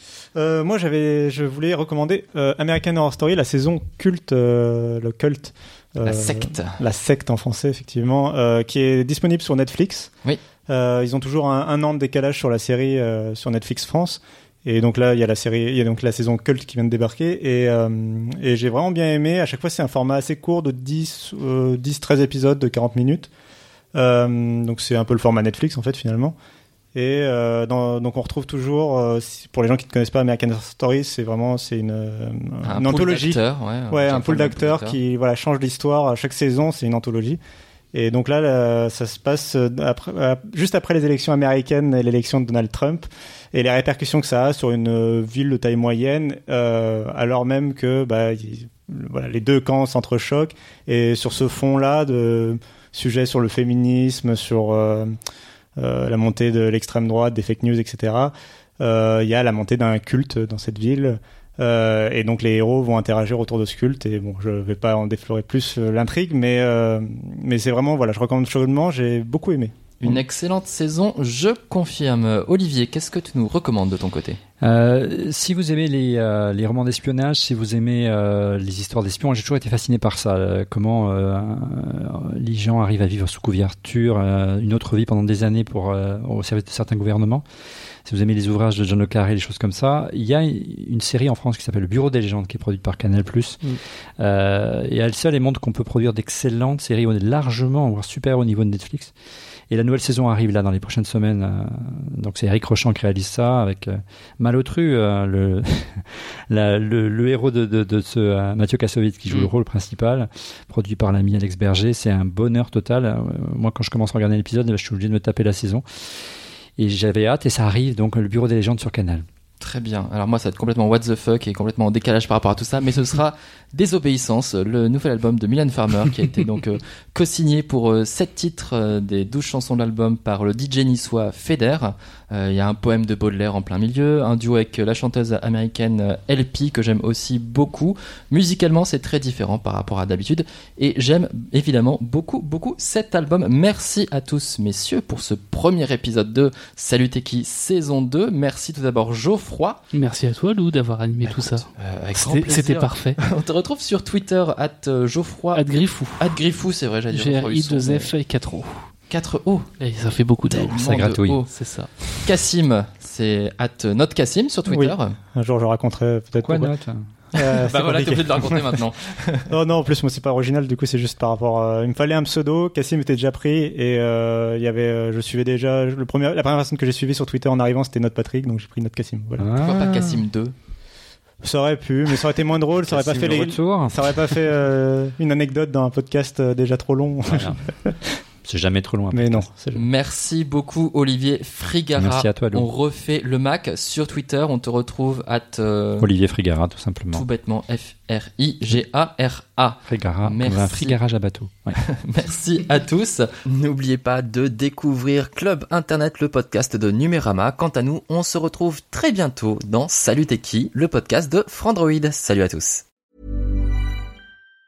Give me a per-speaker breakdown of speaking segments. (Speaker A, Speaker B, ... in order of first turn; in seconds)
Speaker A: 0.3-10.1, 10.7-23.3, 23.9-26.3, 26.9-37.4, 37.9-55.1, 55.8-70.2, 164.7-166.7, 167.3-168.8, 169.5-179.5, 181.4-188.0, 189.1-189.8
Speaker B: 6.0-6.8, 32.6-35.0, 70.0-74.4, 119.6-149.8, 151.2-155.6, 156.2-158.1, 159.1-159.7, 160.5-161.5, 162.1-165.2, 167.3-169.5, 179.6-180.5, 189.7-196.1, 197.1-200.9, 201.8-212.8
Speaker C: 74.6-87.4, 88.0-99.1, 99.7-115.8, 116.8-119.2, 160.8-161.4, 166.4-167.0, 179.4-180.2, 182.8-184.1, 187.2-187.6, 188.4-189.5, 191.9-192.7, 196.0-197.2, 199.8-201.8
Speaker D: 149.9-153.2, 155.5-156.3, 157.1-158.8, 159.8-160.8, 161.5-161.9